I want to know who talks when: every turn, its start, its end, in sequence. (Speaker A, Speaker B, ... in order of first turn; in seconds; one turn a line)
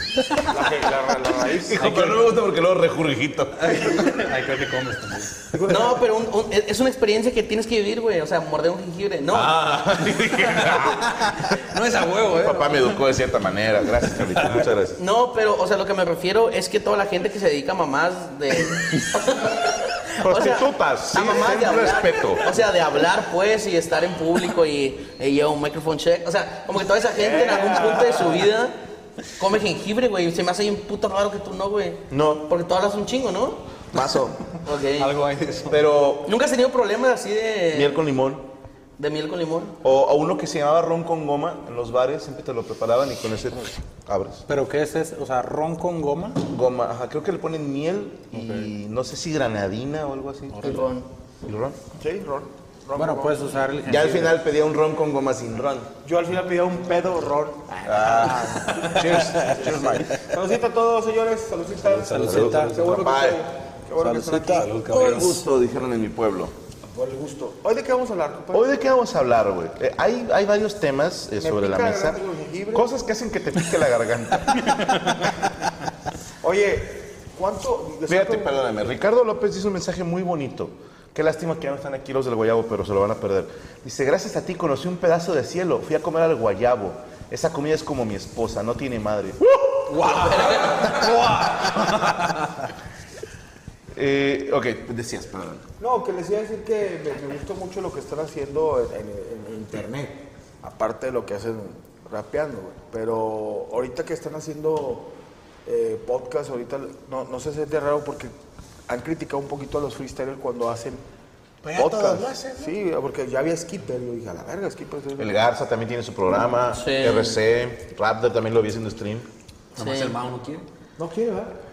Speaker A: 0.3-2.2
Speaker B: 1.6-3.8
Speaker C: 3.6-5.5
Speaker A: 5.5-6.0
Speaker D: 5.7-9.6
Speaker B: 9.3-11.2
Speaker C: 9.9-12.9
Speaker B: 12.3-15.0
Speaker C: 14.4-14.6
Speaker D: 15.0-28.7
Speaker B: 20.2-22.6
Speaker A: 27.6-28.0
Speaker D: 29.4-33.6
Speaker B: 32.1-32.4
Speaker B: 33.9-34.4
Speaker D: 34.6-35.1
Speaker C: 35.0-35.8
Speaker B: 35.7-36.3
Speaker D: 36.2-38.0
Speaker B: 37.7-38.5
Speaker D: 39.0-39.8
Speaker B: 39.8-44.4
Speaker E: 44.5-46.4
Speaker B: 46.5-50.8
Speaker E: 48.4-48.6
Speaker D: 50.6-51.1
Speaker B: 51.5-51.8
Speaker A: 52.0-53.7
Speaker E: 53.0-54.4
Speaker B: 53.9-55.9
Speaker A: 56.0-64.7
Speaker B: 57.8-60.1
Speaker C: 61.9-63.0
Speaker E: 62.1-62.8
Speaker B: 62.3-63.4
Speaker E: 64.0-64.7
Speaker C: 64.4-65.4
Speaker B: 64.9-66.5
Speaker A: 66.8-68.7
Speaker B: 68.5-72.2
Speaker A: 71.4-72.9
Speaker B: 72.7-74.9
Speaker A: 76.4-78.5
Speaker B: 78.1-89.5
Speaker D: 89.9-91.2
Speaker C: 89.9-92.3
Speaker B: 93.9-95.6
Speaker A: 95.8-105.1
Speaker A: 105.6-108.3
Speaker A: 108.9-111.0
Speaker B: 111.6-112.7
Speaker A: 111.7-115.3
Speaker B: 115.2-119.3
Speaker D: 116.7-117.4
Speaker D: 119.8-120.2
Speaker C: 119.8-120.7
Speaker A: 121.0-121.5